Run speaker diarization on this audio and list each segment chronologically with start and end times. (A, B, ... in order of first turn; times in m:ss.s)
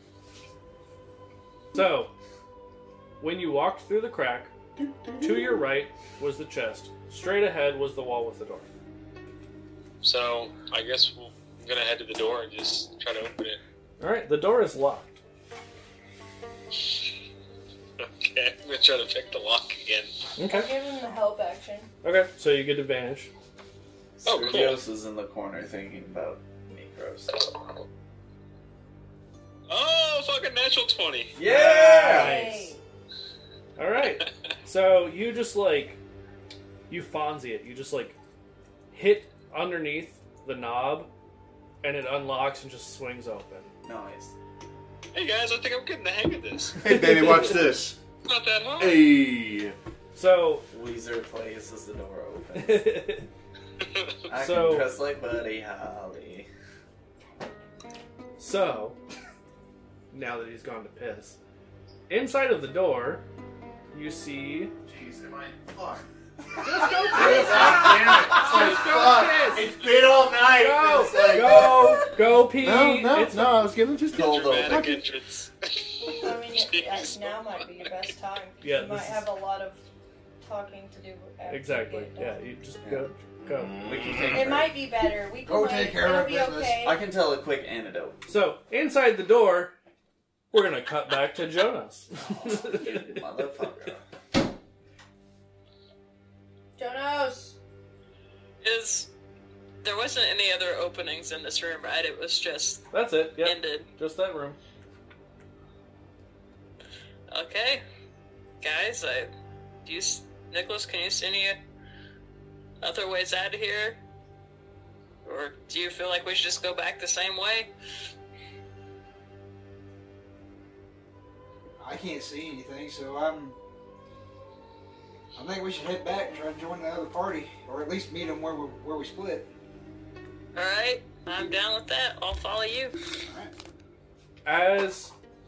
0:01.7-0:02.1 A
0:03.2-0:04.5 A
0:04.8-0:05.6 B
0:05.2-0:08.7 A
0:10.0-0:13.6 C
0:14.0-0:15.2 A
0:18.0-0:20.1 C
0:20.4-0:20.7 A
0:20.5-0:21.9 D
0:22.0-0:23.3 A
0:24.2-0:27.4 E
0:24.2-0:24.8 C
0:29.7-0:31.4 C
0:31.4-0:32.4 E
0:31.4-0:32.7 A
0:32.0-0:32.8 D
0:33.8-0:36.0 A
0:36.9-0:38.2 A
0:38.9-0:41.1 A
0:41.8-0:43.7 A
0:43.8-0:44.4 E
0:45.1-0:47.0 C
0:46.8-0:48.0 B
0:46.9-0:47.6 A
0:48.2-0:49.0 C
0:48.8-0:49.8 B
0:50.1-0:50.7 A
0:50.7-0:52.9 E
0:52.6-0:53.3 A
0:53.8-0:54.1 C
0:54.3-0:56.5 E
0:54.3-0:54.9 A
0:58.4-0:59.0 A
1:00.1-1:01.4 A
1:02.1-1:03.2 A
1:03.9-1:04.7 A
1:04.9-1:15.1 B
1:06.6-1:09.8 A
1:10.4-1:13.7 A
1:14.1-1:15.0 E
1:14.1-1:17.9 C
1:16.1-1:19.8 D
1:18.6-1:19.3 A
1:20.4-1:22.4 D
1:21.5-1:23.8 A
1:22.8-1:23.1 E
1:23.4-1:24.7 B
1:23.8-1:24.7 E
1:24.3-1:27.0 D
1:25.4-1:26.9 F
1:26.8-1:28.2 E
1:28.3-1:29.7 A
1:30.5-1:33.2 A
1:32.2-1:34.0 E
1:36.8-1:37.6 D
1:38.6-1:39.1 G
1:39.8-1:42.8 G
1:42.9-1:44.6 A
1:43.4-1:43.9 G
1:47.3-1:47.8 G
1:48.6-1:49.3 G
1:49.8-1:51.6 G
1:52.8-1:54.0 G
1:55.2-1:57.7 G
2:01.8-2:03.6 F
2:05.4-2:09.5 F
2:10.6-2:12.9 G
2:13.2-2:13.5 F
2:14.4-2:15.1 A